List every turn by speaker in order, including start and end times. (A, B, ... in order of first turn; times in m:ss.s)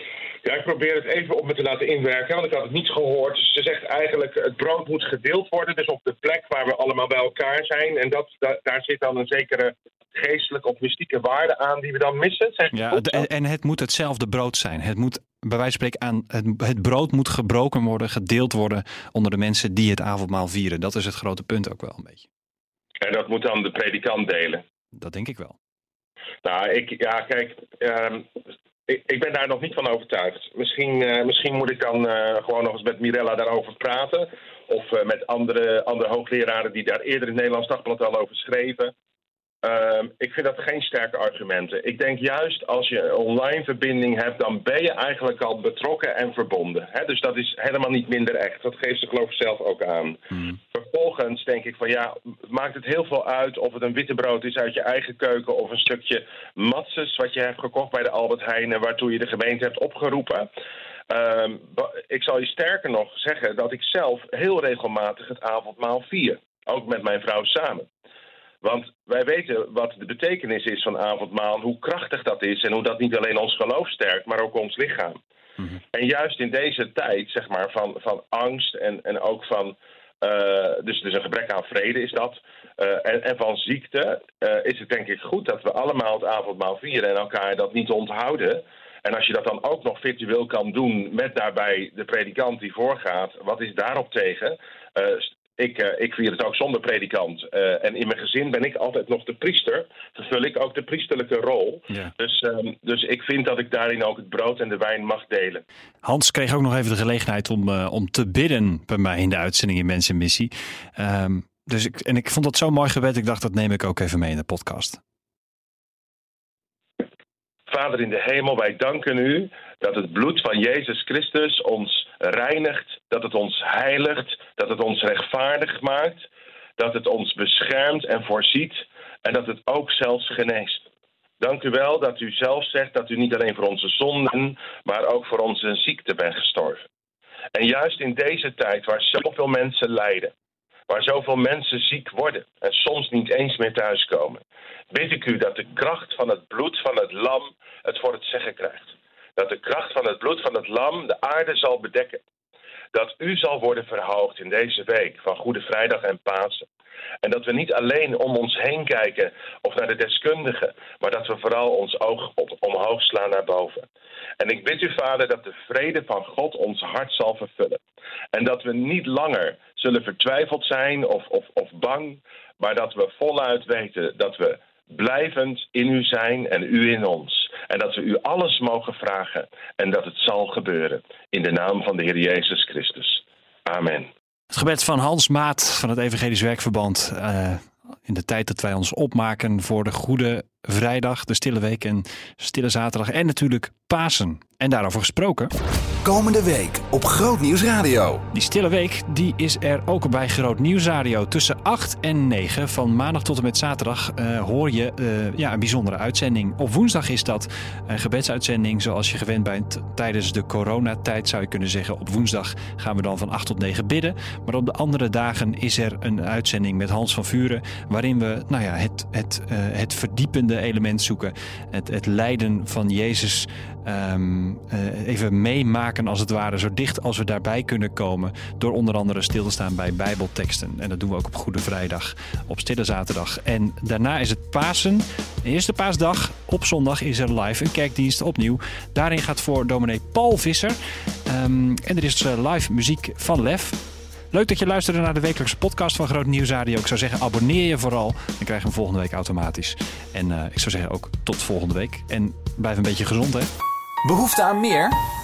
0:00.4-0:13.3 A
0:12.7-0:22.3 B
0:23.0-0:24.6 A
0:24.9-0:25.6 B
0:26.4-0:38.9 A
0:39.6-1:00.5 A
1:01.1-1:07.9 A
1:08.6-1:15.2 A
1:15.9-1:45.6 A
1:46.0-1:55.0 B
1:57.7-2:06.2 A
2:06.8-2:10.8 A
2:11.4-2:16.8 A
2:17.5-2:20.3 A
2:20.9-2:32.2 A
2:32.9-2:36.6 A
2:37.2-2:43.8 A
2:44.4-2:47.8 A
2:48.3-3:04.1 A
3:04.5-3:15.5 B
3:16.0-3:18.2 C
3:18.3-4:03.8 B
4:04.3-4:13.5 B
4:14.0-4:15.0 C